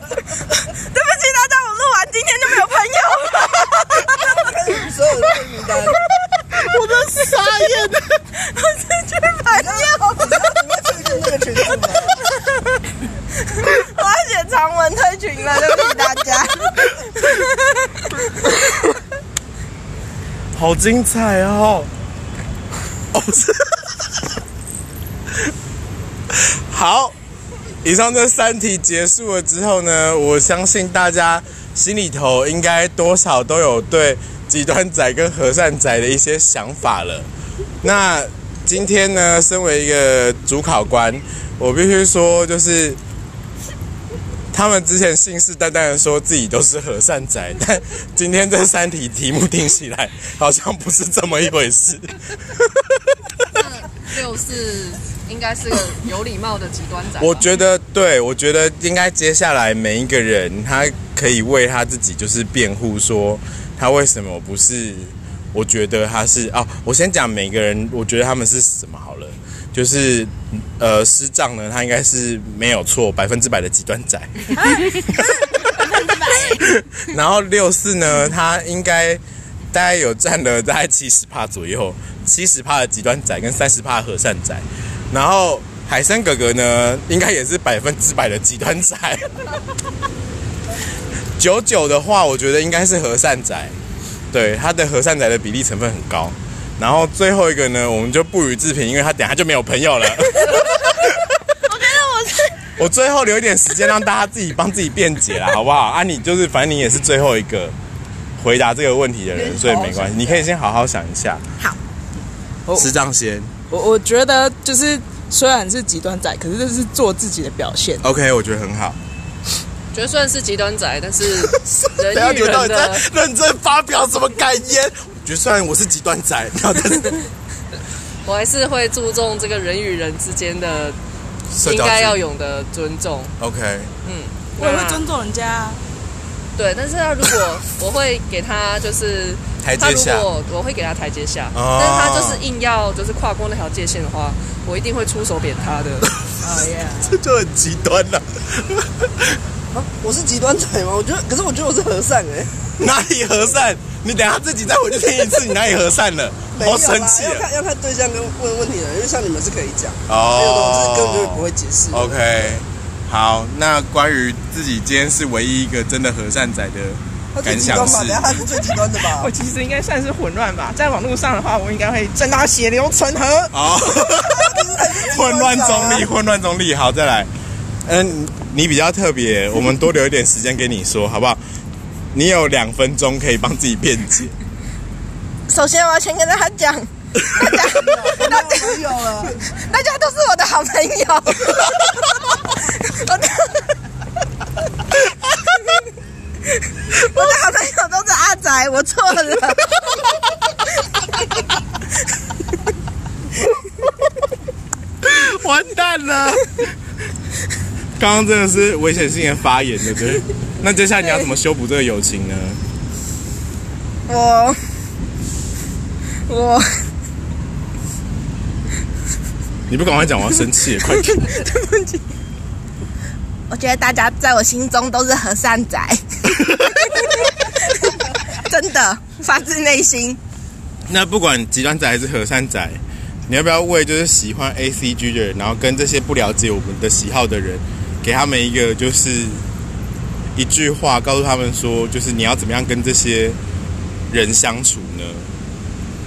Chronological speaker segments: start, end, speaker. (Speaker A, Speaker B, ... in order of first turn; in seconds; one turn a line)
Speaker A: 0.7-4.3
Speaker B: 4.1-6.0
Speaker C: 7.1-7.9
Speaker A: 8.3-10.1
Speaker B: 9.5-12.2
Speaker A: 12.2-12.6
Speaker A: 13.4-17.8
Speaker C: 20.5-21.9
Speaker C: 23.1-23.8
Speaker C: 26.3-27.1
Speaker C: 27.8-37.3
Speaker C: 37.8-43.0
Speaker C: 44.5-53.1
Speaker D: 53.5-57.5
Speaker C: 57.2-75.6
Speaker A: 75.5-76.6
Speaker C: 76.5-79.2
Speaker C: 79.7-89.3
Speaker C: 91.4-93.7
Speaker C: 94.3-101.1
Speaker A: 101.6-102.7
Speaker C: 102.8-107.7
Speaker C: 108.4-111.4
Speaker B: 109.3-110.5
Speaker C: 112.7-113.5
Speaker E: 113.7-118.0
Speaker C: 118.0-119.0
Speaker D: 119.9-123.0
Speaker C: 121.7-127.3
Speaker D: 128.2-131.0
Speaker C: 131.5-132.2
Speaker D: 131.6-133.3
Speaker C: 133.4-133.9
Speaker D: 134.0-135.0
Speaker E: 134.6-135.8
Speaker D: 136.6-146.1
Speaker C: 139.6-140.3
Speaker C: 141.5-142.4
Speaker E: 146.4-147.1
Speaker C: 147.0-149.3
Speaker B: 149.7-152.6
Speaker C: 152.8-157.4
Speaker B: 156.5-162.2
Speaker C: 160.1-168.2
Speaker B: 167.3-169.3
Speaker F: 169.0-173.5
Speaker C: 173.5-174.5
Speaker B: 174.2-176.1
Speaker C: 175.1-177.3
Speaker C: 177.8-181.4
Speaker C: 182.1-184.3
Speaker A: 185.5-188.8
Speaker B: 187.3-189.4
Speaker A: 189.4-192.0
Speaker A: 192.6-193.7
Speaker A: 196.9-199.8
Speaker C: 205.0-206.5
Speaker C: 208.0-212.6
Speaker A: 214.1-214.6
Speaker A: 216.3-216.7
Speaker C: 219.7-221.3
Speaker A: 221.1-222.0
Speaker A: 223.5-226.2
Speaker A: 226.9-230.2
Speaker C: 230.9-239.4
Speaker C: 240.3-243.4
Speaker C: 244.1-245.3